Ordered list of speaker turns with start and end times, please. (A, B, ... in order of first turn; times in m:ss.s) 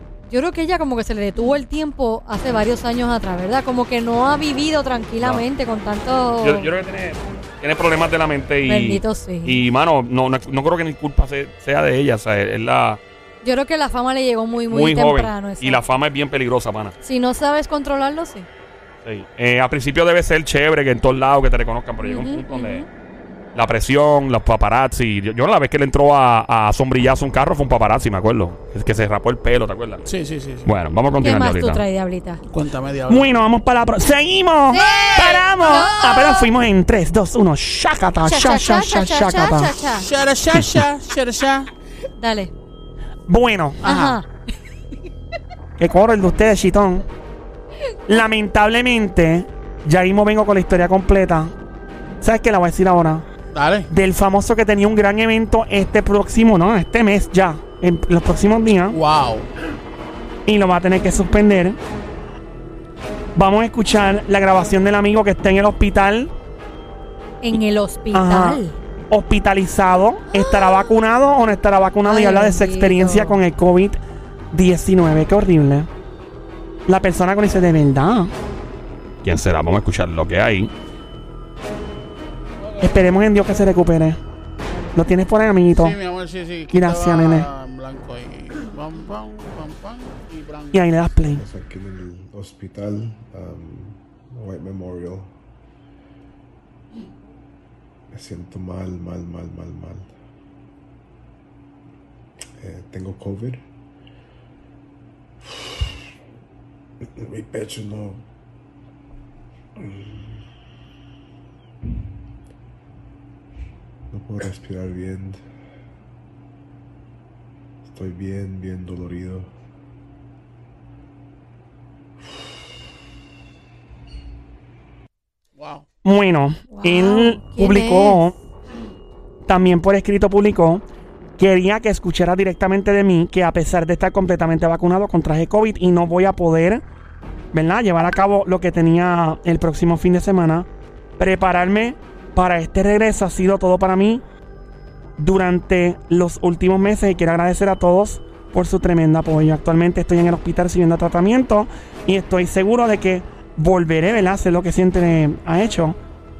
0:00.3-0:06.7 A
0:06.4-0:13.0 B
0:08.6-0:09.6 A
0:13.4-0:15.8 A
0:14.7-0:16.9 B
0:17.0-0:18.5 A
0:19.0-0:22.8 B
0:22.0-0:22.8 A
0:23.5-0:30.1 B
0:30.0-0:30.7 C
0:30.6-0:31.8 B
0:31.2-0:32.4 A
0:32.5-0:33.3 C
0:33.1-0:39.7 D
0:34.7-0:36.5 A
0:34.8-0:35.4 C
0:38.2-0:40.1 A
0:39.9-0:41.7 C
0:42.2-0:42.5 A
0:43.3-0:43.8 D
0:43.8-0:44.2 C
0:43.8-0:44.2 A
0:45.8-0:47.0 D
0:48.1-0:51.5 D
0:52.2-0:53.2 D
0:53.5-0:53.9 C
0:53.9-0:59.0 D
0:58.9-0:59.5 C
1:00.4-1:01.8 D
1:03.3-1:06.3 D
1:07.4-1:08.7 A
1:08.1-1:14.0 D
1:12.0-1:13.4 A
1:14.5-1:15.9 D
1:16.9-1:18.3 D
1:19.2-1:20.7 B
1:22.6-1:23.0 C
1:22.8-1:24.2 D
1:24.9-1:26.0 D
1:25.7-1:30.8 C
1:26.7-1:27.5 D
1:30.7-1:31.4 D
1:31.2-1:35.3 E
1:38.1-1:40.1 E
1:42.6-1:43.6 E
1:45.4-1:46.1 E
1:47.0-1:48.2 E
1:49.8-1:50.4 E
1:54.1-1:55.4 E
1:57.8-1:59.5 E
2:05.6-2:05.8 C
2:06.0-2:08.3 D
2:06.7-2:08.2 A
2:09.4-2:10.8 D
2:11.4-2:16.8 D
2:17.5-2:24.2 D
2:25.2-2:36.0 D